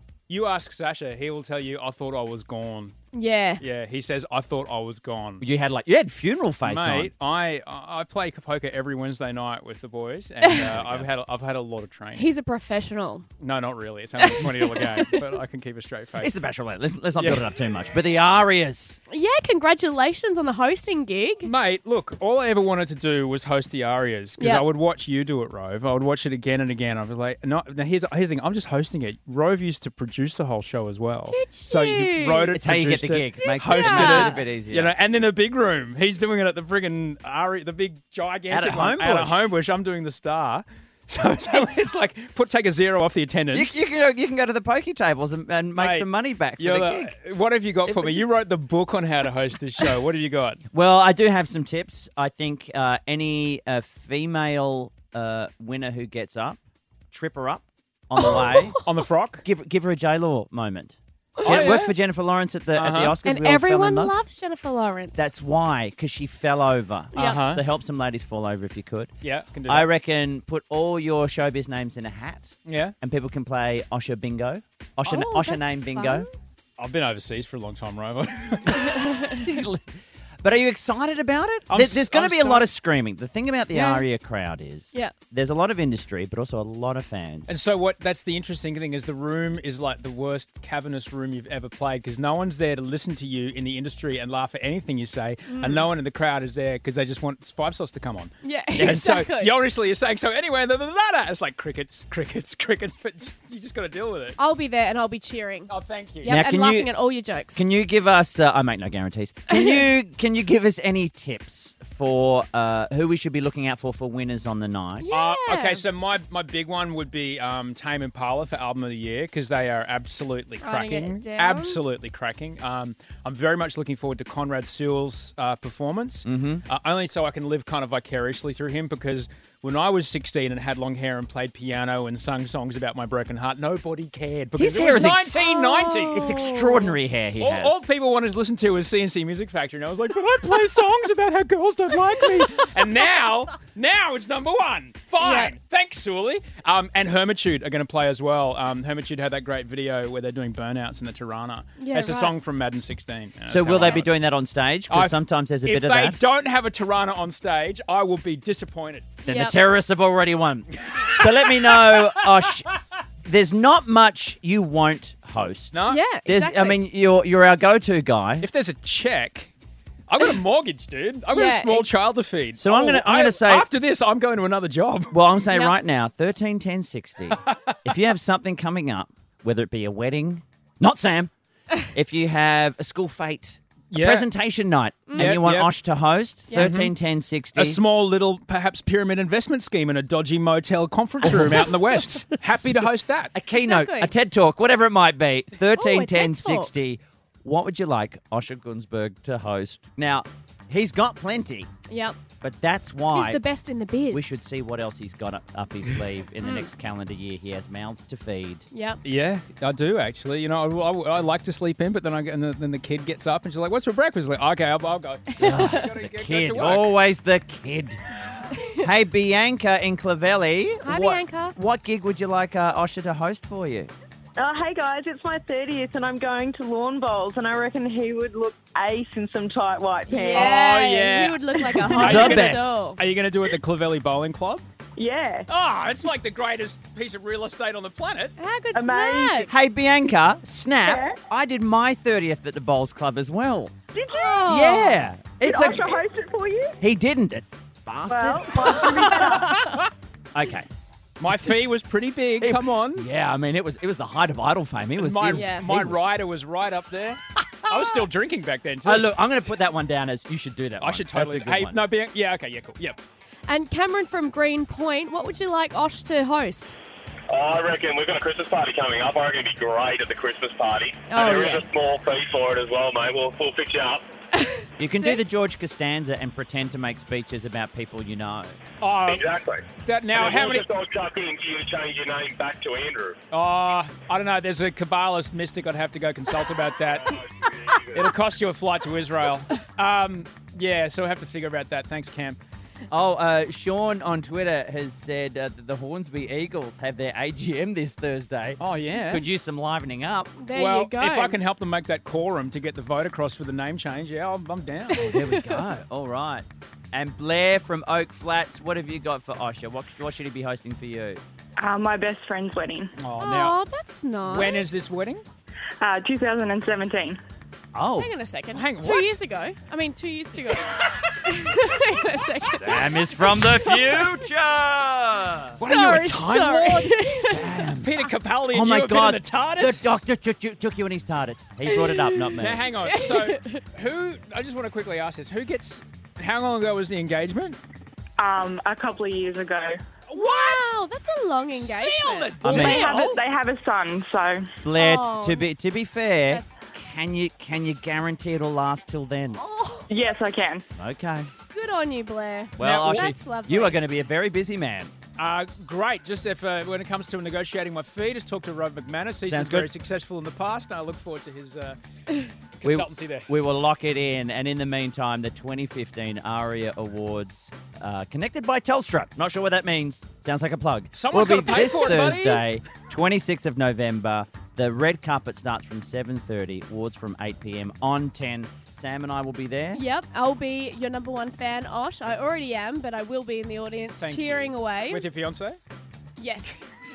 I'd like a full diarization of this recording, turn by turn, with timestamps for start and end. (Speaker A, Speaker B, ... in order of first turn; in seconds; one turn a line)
Speaker A: 0.3-2.9
Speaker B: 3.1-3.6
Speaker A: 3.6-5.4
Speaker C: 5.4-7.1
Speaker A: 6.6-12.3
Speaker B: 10.4-10.7
Speaker C: 10.7-11.1
Speaker B: 12.2-13.2
Speaker A: 13.4-16.3
Speaker B: 14.2-15.2
Speaker C: 16.2-19.0
Speaker A: 17.2-17.5
Speaker B: 19.1-21.5
Speaker A: 21.4-43.9
Speaker B: 24.4-24.6
Speaker B: 31.3-32.5
Speaker C: 32.4-34.9
Speaker B: 33.4-34.4
Speaker C: 38.5-39.5
Speaker C: 43.5-47.2
Speaker A: 45.8-50.6
Speaker C: 47.9-48.2
Speaker C: 50.7-56.6
Speaker C: 57.1-58.7
Speaker B: 58.2-58.8
Speaker A: 58.3-59.4
Speaker C: 59.4-64.2
Speaker B: 61.4-61.8
Speaker A: 61.4-62.0
Speaker A: 62.7-63.2
Speaker B: 63.2-65.3
Speaker C: 65.2-69.1
Speaker B: 67.1-67.4
Speaker A: 67.2-67.6
Speaker A: 69.2-69.9
Speaker C: 69.7-76.3
Speaker A: 72.7-72.9
Speaker B: 75.1-76.3
Speaker A: 76.8-79.0
Speaker C: 79.2-79.9
Speaker C: 80.4-87.5
Speaker A: 81.7-82.7
Speaker B: 83.7-84.0
Speaker A: 87.5-104.4
Speaker B: 95.5-95.9
Speaker B: 98.4-99.6
Speaker C: 98.8-99.2
Speaker B: 104.4-105.7
Speaker A: 105.7-106.4
Speaker B: 106.2-107.6
Speaker C: 106.2-106.9
Speaker C: 107.5-115.1
Speaker B: 109.5-109.8
Speaker B: 115.0-115.8
Speaker A: 115.1-136.3
Speaker B: 120.6-121.8
Speaker C: 126.3-126.6
Speaker C: 134.6-135.3
Speaker B: 135.3-137.0
Speaker C: 136.1-137.8
Speaker A: 137.4-154.1
Speaker B: 145.2-145.5
Speaker B: 151.8-152.3
Speaker C: 153.5-156.2
Speaker A: 154.9-159.2
Speaker B: 159.2-159.6
Speaker C: 159.3-162.7
Speaker A: 160.9-162.2
Speaker C: 163.2-168.5
Speaker A: 165.7-166.0
Speaker B: 165.8-166.8
Speaker A: 168.4-169.5
Speaker A: 170.1-175.2
Speaker B: 171.3-171.9
Speaker C: 172.6-173.7
Speaker C: 175.1-181.3
Speaker C: 181.8-187.8
Speaker A: 183.9-184.3
Speaker B: 185.1-185.4
Speaker A: 185.1-185.7
Speaker B: 186.5-186.7
Speaker A: 186.5-186.9
Speaker A: 187.6-193.3
Speaker C: 193.3-201.7
Speaker B: 193.5-194.1
Speaker B: 195.7-196.7
Speaker B: 201.9-202.2
Speaker C: 202.4-203.4
Speaker B: 203.1-204.4
Speaker C: 204.1-208.6
Speaker B: 206.4-206.7
Speaker B: 208.7-209.0
Speaker A: 209.0-217.0
Speaker B: 215.4-215.9
Speaker C: 215.4-218.0
Speaker C: 218.7-223.9
Speaker B: 220.8-221.6
Speaker D: 224.4-230.5
Speaker B: 230.1-233.0
Speaker A: 230.3-234.7
Speaker C: 231.8-232.8
Speaker D: 235.0-235.5
Speaker A: 235.5-238.4
Speaker B: 238.4-239.6
Speaker D: 238.7-239.5
Speaker C: 239.5-243.7
Speaker D: 240.8-241.1
Speaker D: 243.9-244.5
Speaker B: 244.1-245.0
Speaker C: 244.5-246.0
Speaker D: 245.4-246.8
Speaker C: 246.8-249.6
Speaker D: 248.1-249.6
Speaker A: 248.7-249.9
Speaker C: 250.3-250.7
Speaker A: 251.2-253.1
Speaker C: 252.4-256.0
Speaker A: 255.0-259.1
Speaker B: 255.3-255.7
Speaker C: 258.8-261.8
Speaker A: 260.8-263.0
Speaker B: 263.5-266.8
Speaker E: 267.3-274.0
Speaker B: 271.1-271.6
Speaker B: 274.5-275.2
Speaker C: 274.8-278.6
Speaker A: 278.8-279.3
Speaker E: 279.1-283.2
Speaker A: 279.8-280.7
Speaker A: 283.3-287.2
Speaker E: 286.9-288.1
Speaker A: 287.9-292.4
Speaker C: 292.9-300.4
Speaker A: 298.6-299.2
Speaker B: 300.4-301.4
Speaker A: 300.5-305.1
Speaker B: 304.9-305.7
Speaker C: 304.9-311.2
Speaker D: 311.6-312.9
Speaker A: 313.0-313.6
Speaker B: 313.2-314.9
Speaker A: 314.2-315.2
Speaker D: 315.8-317.2
Speaker C: 317.7-318.1
Speaker B: 318.0-324.2
Speaker A: 318.5-319.2
Speaker C: 322.5-325.6
Speaker A: 325.6-330.0
Speaker B: 325.6-327.5
Speaker C: 327.2-327.9
Speaker C: 328.5-332.7
Speaker B: 331.6-333.6
Speaker A: 332.4-337.6
Speaker D: 338.2-339.8
Speaker A: 340.1-340.8
Speaker B: 340.2-342.4
Speaker A: 341.5-343.2
Speaker C: 342.4-342.9
Speaker D: 342.5-344.5
Speaker C: 344.6-349.4
Speaker B: 344.8-345.5
Speaker B: 346.3-346.6
Speaker B: 349.4-349.9
Speaker D: 349.9-350.6
Speaker C: 350.8-351.3
Speaker B: 351.5-353.8
Speaker C: 352.6-354.9
Speaker A: 352.6-353.1
Speaker A: 355.2-361.8
Speaker C: 359.3-359.7
Speaker A: 362.6-363.3
Speaker C: 362.6-379.8
Speaker A: 370.9-372.5
Speaker B: 371.6-372.2
Speaker B: 379.8-385.1
Speaker A: 384.0-385.6
Speaker B: 386.2-386.6